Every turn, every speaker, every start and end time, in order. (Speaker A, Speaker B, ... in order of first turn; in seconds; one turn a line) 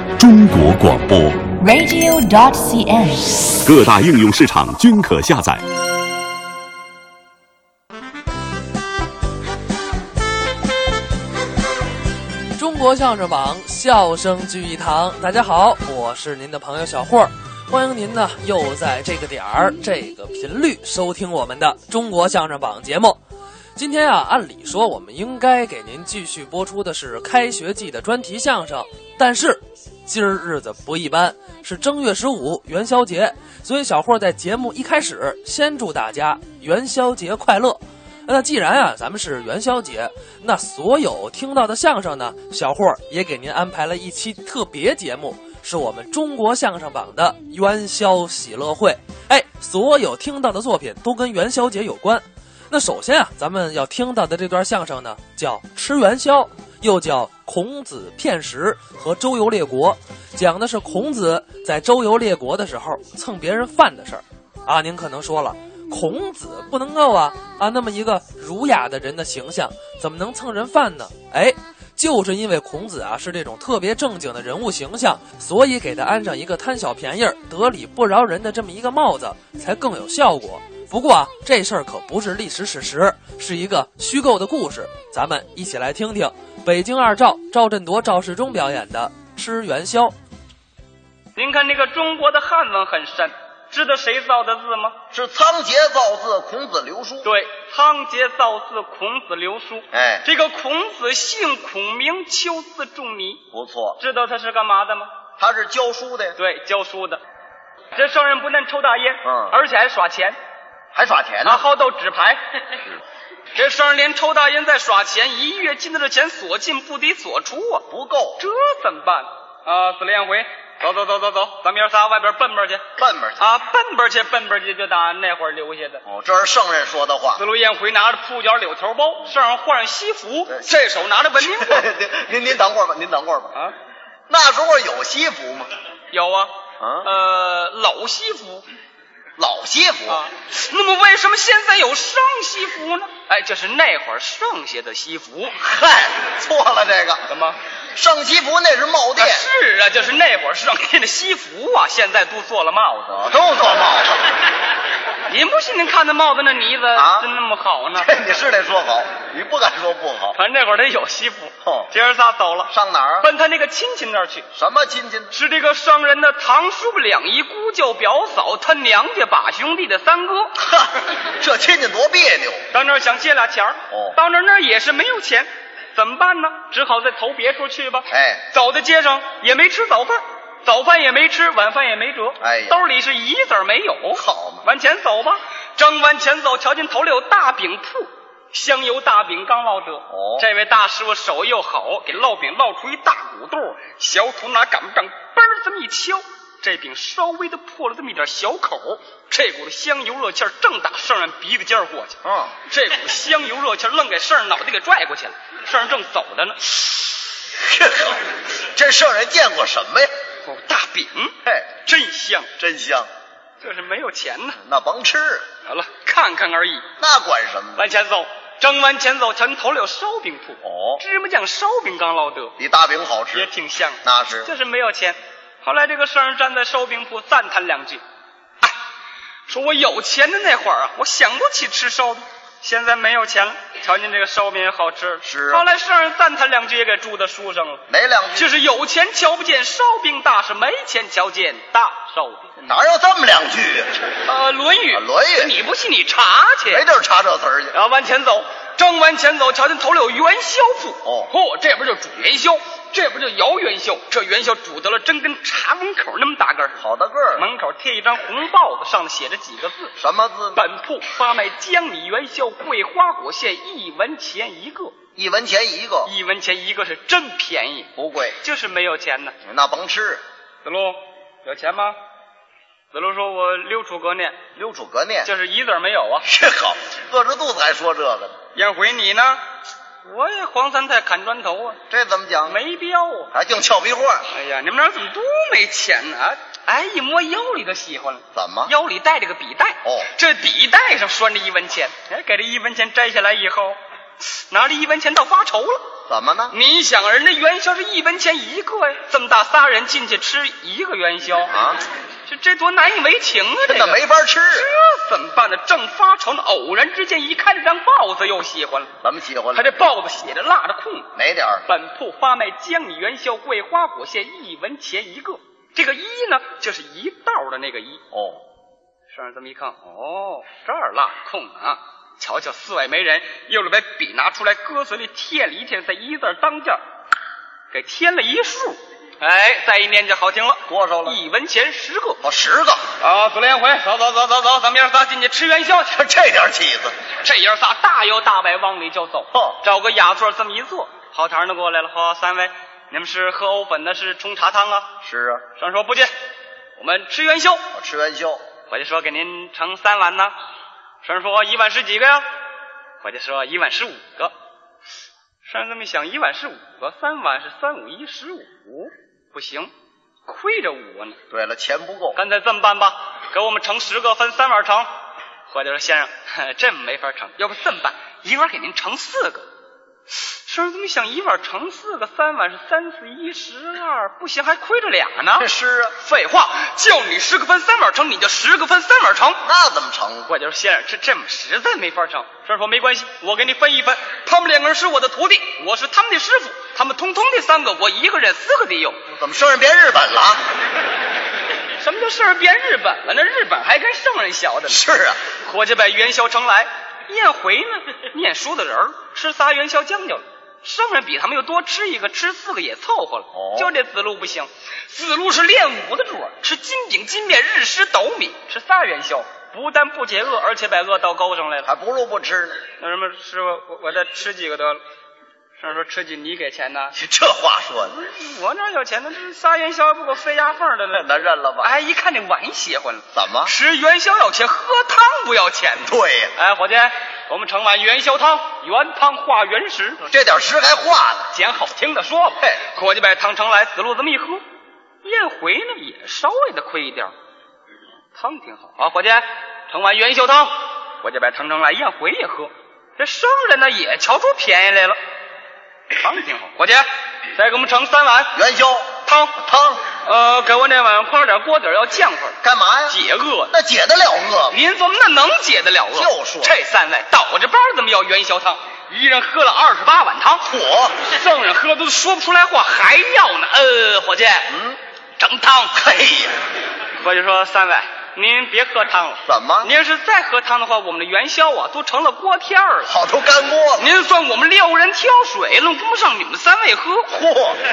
Speaker A: 0.2-1.4
Speaker B: 1.6-3.7
Speaker A: 3.7-5.6
Speaker C: 12.6-23.2
Speaker C: 23.8-90.1
Speaker D: 91.4-95.0
Speaker E: 95.1-97.3
Speaker D: 97.2-103.4
Speaker E: 99.9-100.2
Speaker E: 103.5-104.0
Speaker D: 104.0-105.1
Speaker E: 105.4-106.4
Speaker D: 106.4-107.2
Speaker D: 108.0-110.4
Speaker E: 109.2-109.5
Speaker E: 110.9-111.6
Speaker D: 111.4-112.4
Speaker D: 113.5-117.8
Speaker E: 117.9-118.4
Speaker D: 118.4-122.9
Speaker E: 123.0-123.4
Speaker D: 123.4-126.0
Speaker E: 126.0-127.4
Speaker D: 127.4-131.8
Speaker E: 130.5-133.5
Speaker E: 134.3-135.7
Speaker D: 136.1-138.6
Speaker E: 136.8-137.1
Speaker E: 139.4-140.2
Speaker D: 140.1-145.6
Speaker E: 145.6-147.2
Speaker D: 147.3-147.6
Speaker E: 147.9-149.4
Speaker D: 149.2-153.3
Speaker E: 153.2-154.3
Speaker D: 155.3-158.1
Speaker E: 156.9-157.3
Speaker E: 158.0-160.4
Speaker D: 160.3-164.5
Speaker E: 161.6-161.9
Speaker E: 162.7-163.3
Speaker E: 164.5-165.3
Speaker D: 165.3-170.5
Speaker E: 170.6-172.6
Speaker D: 172.7-207.1
Speaker E: 173.9-174.2
Speaker E: 178.1-178.4
Speaker E: 182.4-182.8
Speaker E: 184.1-184.7
Speaker E: 190.1-190.5
Speaker E: 202.2-202.5
Speaker E: 207.6-210.1
Speaker D: 210.4-212.5
Speaker E: 212.6-213.1
Speaker D: 213.6-214.6
Speaker E: 214.6-215.5
Speaker D: 215.7-216.9
Speaker E: 217.0-217.8
Speaker D: 217.8-222.6
Speaker E: 220.6-221.0
Speaker E: 222.6-223.5
Speaker D: 223.3-228.0
Speaker E: 224.0-224.5
Speaker D: 229.5-237.8
Speaker E: 235.2-235.7
Speaker E: 237.9-238.5
Speaker D: 238.3-242.5
Speaker E: 242.6-243.9
Speaker D: 244.3-246.8
Speaker E: 244.9-245.6
Speaker E: 246.7-247.7
Speaker D: 247.7-256.8
Speaker E: 251.1-251.3
Speaker E: 256.8-257.5
Speaker D: 257.4-259.9
Speaker E: 260.0-260.6
Speaker D: 260.6-264.9
Speaker E: 265.2-266.1
Speaker D: 266.1-269.3
Speaker E: 268.0-268.4
Speaker E: 269.5-270.2
Speaker D: 270.6-272.0
Speaker D: 272.9-274.4
Speaker E: 274.6-275.3
Speaker D: 275.2-276.3
Speaker E: 276.2-278.4
Speaker D: 278.6-279.4
Speaker D: 280.0-281.8
Speaker E: 281.9-282.6
Speaker D: 282.5-283.3
Speaker E: 283.3-284.2
Speaker D: 284.3-295.8
Speaker E: 288.3-288.7
Speaker E: 296.1-296.5
Speaker D: 296.5-301.5
Speaker E: 301.5-301.8
Speaker D: 302.3-308.9
Speaker E: 303.6-304.7
Speaker E: 309.0-309.7
Speaker D: 309.5-311.1
Speaker E: 311.1-311.6
Speaker D: 311.7-318.0
Speaker E: 318.1-318.4
Speaker D: 319.1-326.8
Speaker D: 327.7-332.2
Speaker E: 330.7-331.2
Speaker E: 332.2-332.9
Speaker D: 333.0-335.9
Speaker E: 335.9-336.9
Speaker D: 337.2-344.9
Speaker E: 339.3-339.6
Speaker E: 345.0-345.4
Speaker D: 345.6-346.1
Speaker D: 346.8-347.6
Speaker E: 347.7-348.4
Speaker D: 348.7-350.3
Speaker D: 351.0-352.3
Speaker D: 353.0-354.3
Speaker D: 355.4-359.7
Speaker D: 360.3-361.2
Speaker E: 361.3-362.2
Speaker D: 362.1-364.9
Speaker D: 365.5-369.5
Speaker D: 370.5-379.4
Speaker E: 375.4-375.9
Speaker E: 379.4-380.3
Speaker D: 380.3-389.0
Speaker E: 389.1-390.4
Speaker D: 391.8-394.9
Speaker E: 394.7-395.2
Speaker D: 395.4-411.7
Speaker E: 403.3-403.7
Speaker E: 411.7-412.6
Speaker D: 412.8-414.8
Speaker D: 415.6-416.9
Speaker E: 417.0-418.0
Speaker D: 417.9-430.1
Speaker E: 420.9-421.7
Speaker E: 423.1-423.5
Speaker E: 425.9-426.3
Speaker E: 430.1-431.3
Speaker D: 431.3-434.4
Speaker D: 435.0-437.1
Speaker D: 438.1-445.0
Speaker D: 446.0-448.4
Speaker E: 448.3-449.8
Speaker D: 449.1-449.4
Speaker D: 450.1-453.5
Speaker E: 452.4-453.0
Speaker E: 453.5-454.6
Speaker D: 454.5-460.5
Speaker E: 455.9-456.5
Speaker E: 460.5-461.0
Speaker D: 461.0-464.5
Speaker E: 464.5-464.8
Speaker D: 465.2-465.8
Speaker E: 465.8-466.4
Speaker D: 467.0-472.9
Speaker E: 469.3-469.7
Speaker E: 472.9-473.9
Speaker D: 473.8-477.1
Speaker E: 477.1-477.6